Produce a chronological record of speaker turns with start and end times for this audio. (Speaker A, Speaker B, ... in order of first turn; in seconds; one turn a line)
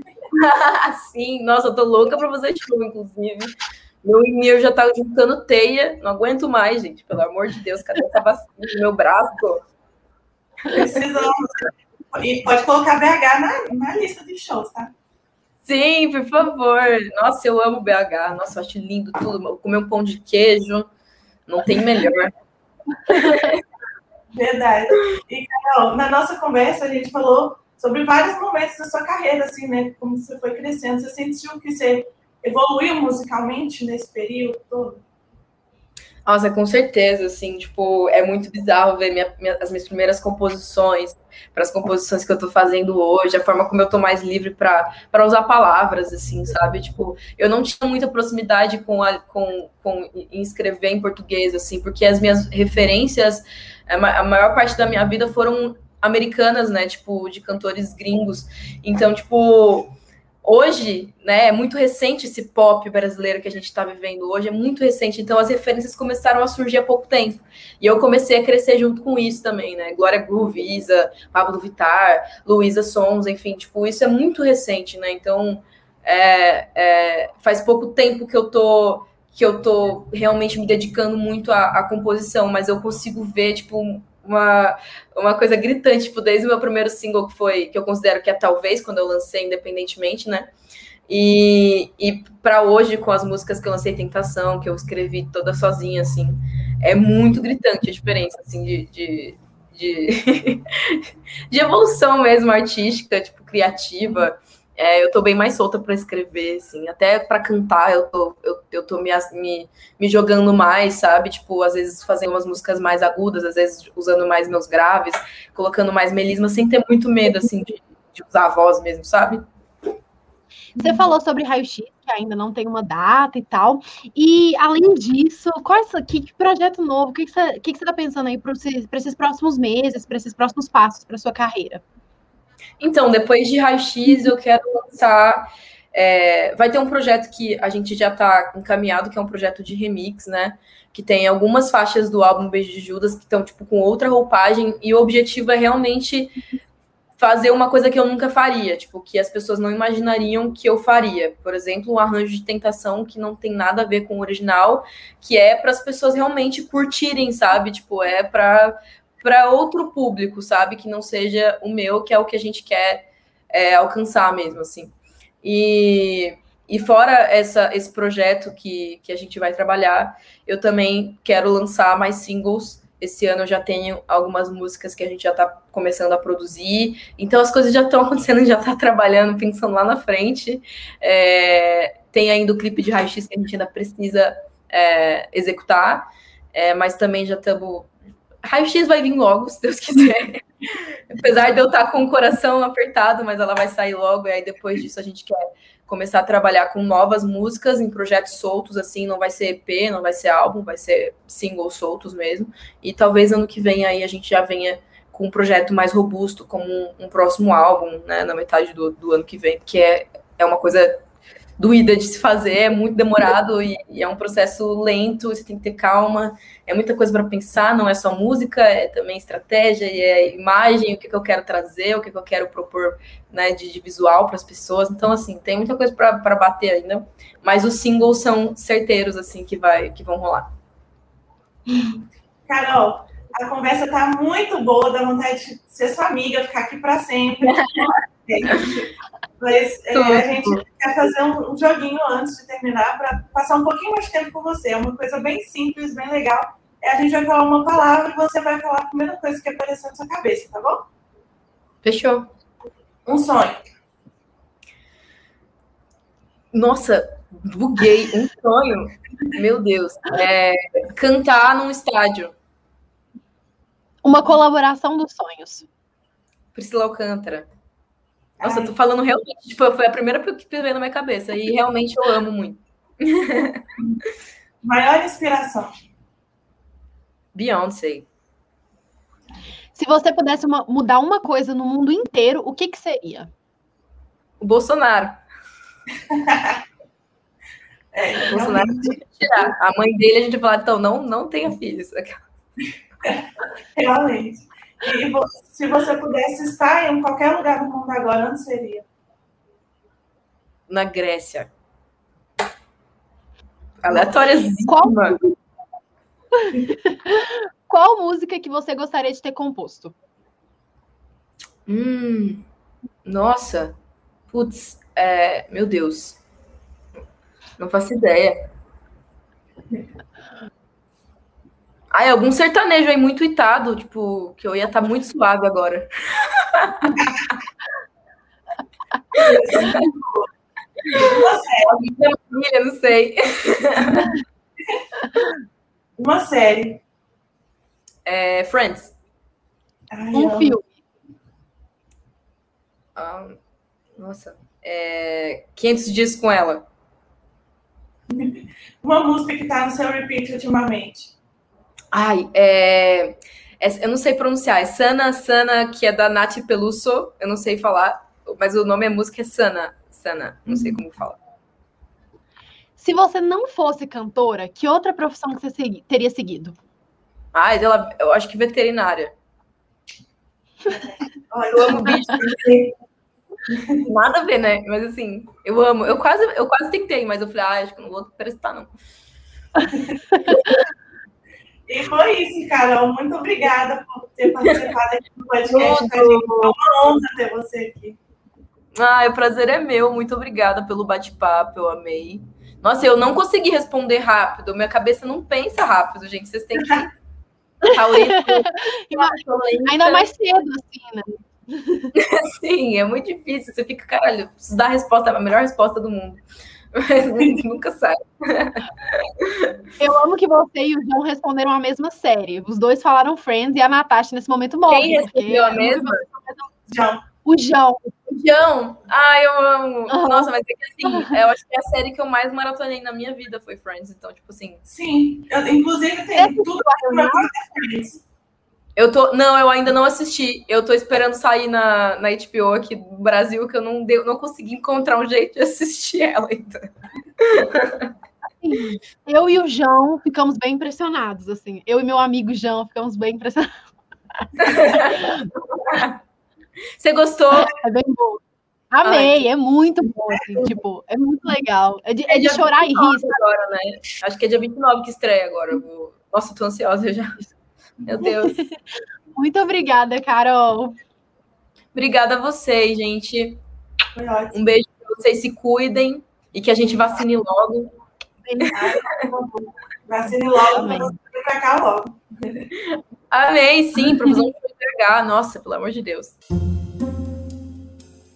Speaker A: 0.3-9.6
Speaker B: 10.7-14.9
Speaker A: 15.6-20.9
Speaker A: 21.5-22.3
Speaker A: 23.1-23.6
Speaker B: 24.3-35.0
Speaker A: 36.3-90.5
Speaker A: 91.1-119.4
Speaker C: 120.8-131.8
Speaker A: 132.8-146.3
Speaker A: 147.2-187.9
Speaker A: 188.4-211.0
Speaker A: 211.6-230.5
Speaker B: 231.7-250.9
Speaker A: 237.4-237.9
Speaker A: 239.9-240.6
Speaker A: 251.8-252.3
Speaker B: 253.1-253.6
Speaker A: 256.5-262.3
Speaker C: 264.0-265.7
Speaker A: 266.6-267.5
Speaker B: 268.4-268.7
Speaker A: 268.4-273.6
Speaker B: 274.6-275.7
Speaker A: 277.3-278.1
Speaker C: 279.7-283.3
Speaker A: 284.4-285.2
Speaker B: 286.1-286.6
Speaker B: 287.9-289.4
Speaker A: 288.3-292.2
Speaker B: 293.8-298.9
Speaker A: 300.7-301.5
Speaker A: 303.8-305.2
Speaker C: 304.7-305.4
Speaker C: 306.4-309.9
Speaker A: 311.7-312.4
Speaker A: 313.1-313.7
Speaker A: 314.3-316.2
Speaker A: 317.6-318.4
Speaker A: 321.9-326.9
Speaker B: 326.9-327.3
Speaker A: 329.1-329.9
Speaker B: 329.2-330.3
Speaker B: 330.9-331.8
Speaker A: 331.7-334.1
Speaker B: 336.0-336.8
Speaker A: 338.1-338.9
Speaker B: 339.9-340.6
Speaker C: 340.1-340.7
Speaker A: 342.9-343.4
Speaker A: 343.9-346.7
Speaker B: 348.1-351.1
Speaker A: 351.9-361.2
Speaker C: 362.8-366.6
Speaker A: 367.3-369.1
Speaker B: 370.7-372.7
Speaker A: 371.5-372.4
Speaker B: 373.5-373.9
Speaker A: 373.8-378.7
Speaker B: 379.7-380.0
Speaker B: 381.7-388.0
Speaker A: 385.5-386.6
Speaker A: 388.7-396.9
Speaker A: 397.7-400.1
Speaker C: 397.7-401.9
Speaker A: 401.9-406.2
Speaker A: 406.7-409.6
Speaker C: 409.8-416.5
Speaker A: 414.7-416.0
Speaker B: 416.7-417.0
Speaker C: 417.2-417.9
Speaker A: 418.1-424.6
Speaker C: 419.9-420.3
Speaker C: 420.9-421.2
Speaker B: 424.7-428.0
Speaker C: 426.1-427.3
Speaker A: 428.8-437.9
Speaker C: 438.4-443.6
Speaker A: 444.4-446.0
Speaker C: 444.8-445.1
Speaker A: 446.8-447.6
Speaker C: 447.3-448.2
Speaker C: 448.7-453.2
Speaker A: 448.8-449.2
Speaker B: 450.1-450.6
Speaker A: 452.1-457.3
Speaker A: 457.8-458.4
Speaker C: 458.0-458.6
Speaker C: 459.2-460.8
Speaker A: 461.7-463.4
Speaker B: 463.9-464.4
Speaker A: 464.3-467.7
Speaker C: 468.2-468.6
Speaker B: 468.4-472.0
Speaker C: 470.4-470.9
Speaker A: 473.1-476.2